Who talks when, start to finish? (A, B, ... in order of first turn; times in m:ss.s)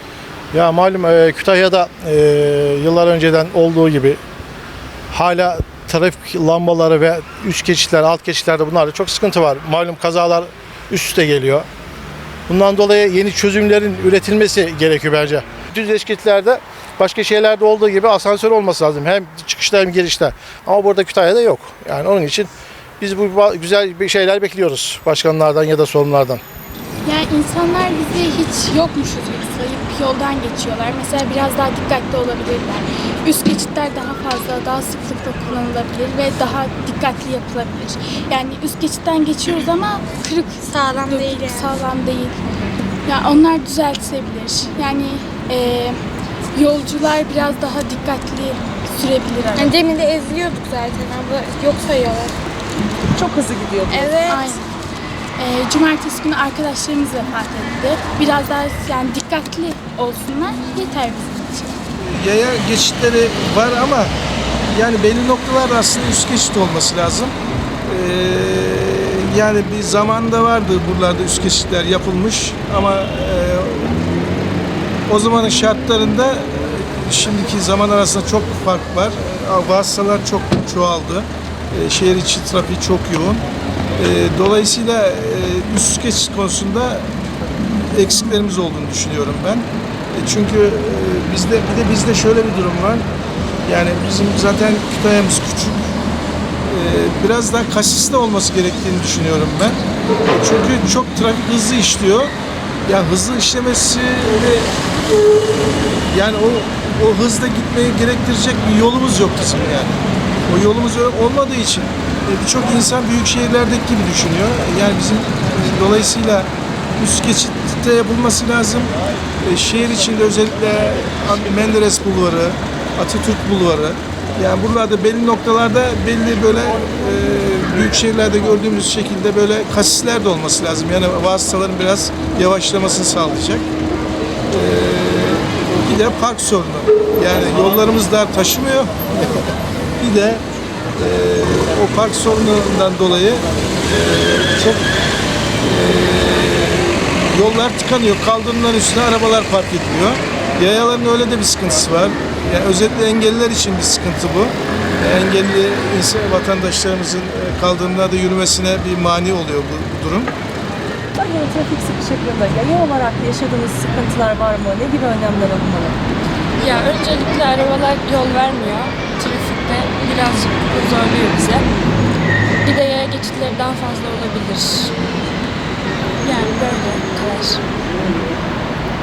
0:00.5-0:04.2 A
0:05.1-0:11.7 A
0:12.5-0:26.4 A
0:27.0-0:42.4 B
0:40.6-0:41.8 C
0:43.0-0:46.0 B
0:46.5-0:49.7 B
0:49.6-0:52.4 C
0:53.1-0:54.2 D
0:53.9-0:54.6 C
0:54.3-0:54.6 B
0:55.4-1:01.8 B
1:02.0-1:04.1 E
1:04.7-1:07.3 E
1:07.9-1:14.0 E
1:15.1-1:23.4 E
1:24.0-1:27.1 E
1:27.9-1:33.1 E
1:33.6-1:35.9 E
1:36.7-1:42.3 E
1:42.8-1:44.7 E
1:46.1-2:13.7 E
2:14.5-2:19.4 E
2:20.0-2:20.4 E
2:21.0-2:24.8 E
2:25.6-2:40.3 E
2:41.2-2:46.0 D
2:46.6-2:51.6 F
2:52.6-2:54.9 F
2:56.2-2:57.6 F